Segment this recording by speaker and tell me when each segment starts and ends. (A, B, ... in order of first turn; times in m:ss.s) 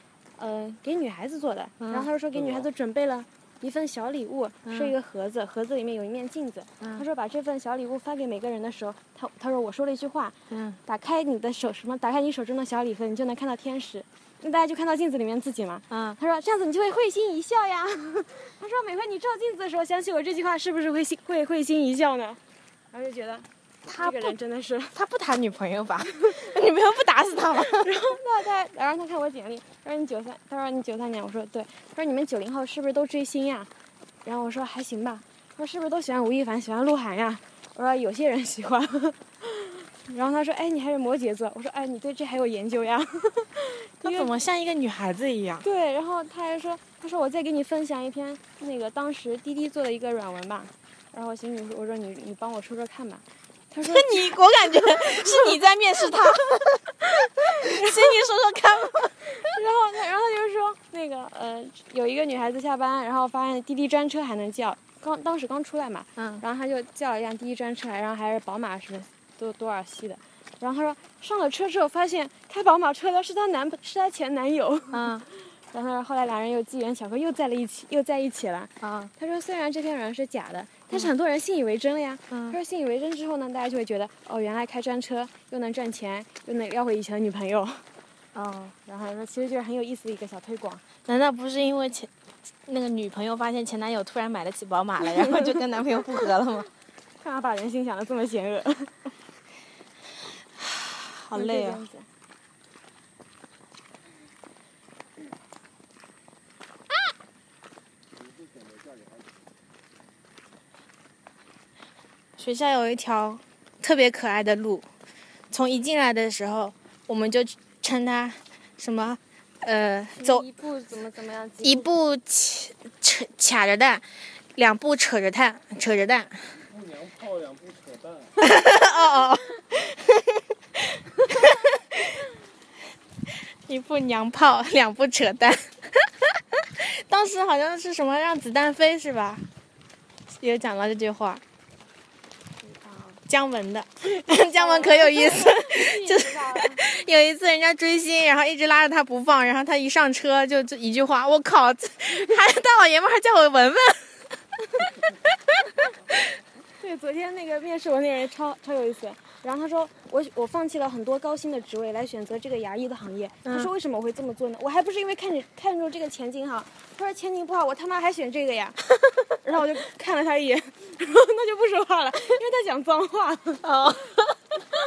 0:00.4-0:22.4 A
0:01.8-0:02.1 B
0:02.3-0:02.7 C
0:04.6-0:04.9 B
0:06.8-0:07.0 B
0:10.5-0:10.8 B
0:15.9-0:16.2 B
0:22.9-0:25.0 A
0:23.8-0:24.4 B
0:24.9-0:27.9 B
0:27.6-0:33.7 A
0:34.2-0:44.4 A
0:44.0-0:45.6 B
0:45.6-0:55.6 A
0:53.8-0:59.3 B
0:57.4-0:58.2 A
0:59.2-1:27.8 A
1:06.2-1:06.4 B
1:14.9-1:15.2 B
1:18.8-1:19.1 B
1:22.3-1:22.6 B
1:28.3-1:28.8 B
1:28.9-1:30.8 A
1:31.0-1:32.1 B
1:32.7-1:36.7 B
1:37.2-1:38.9 A
1:40.6-1:41.8 B
1:41.3-1:42.1 A
1:48.6-1:49.1 C
1:52.4-1:54.9 B
1:55.5-2:00.4 B
2:00.2-2:01.9 A
2:01.6-2:04.0 B
2:04.6-2:06.6 B
2:06.7-2:08.4 C
2:08.4-2:12.0 B
2:13.7-2:16.2 B
2:16.8-2:19.5 B
2:20.4-2:21.4 B
2:22.6-2:23.2 A
2:23.3-2:34.3 B
2:24.2-2:26.8 A
2:36.8-2:53.6 A
2:43.4-2:43.7 B
2:53.6-2:54.4 B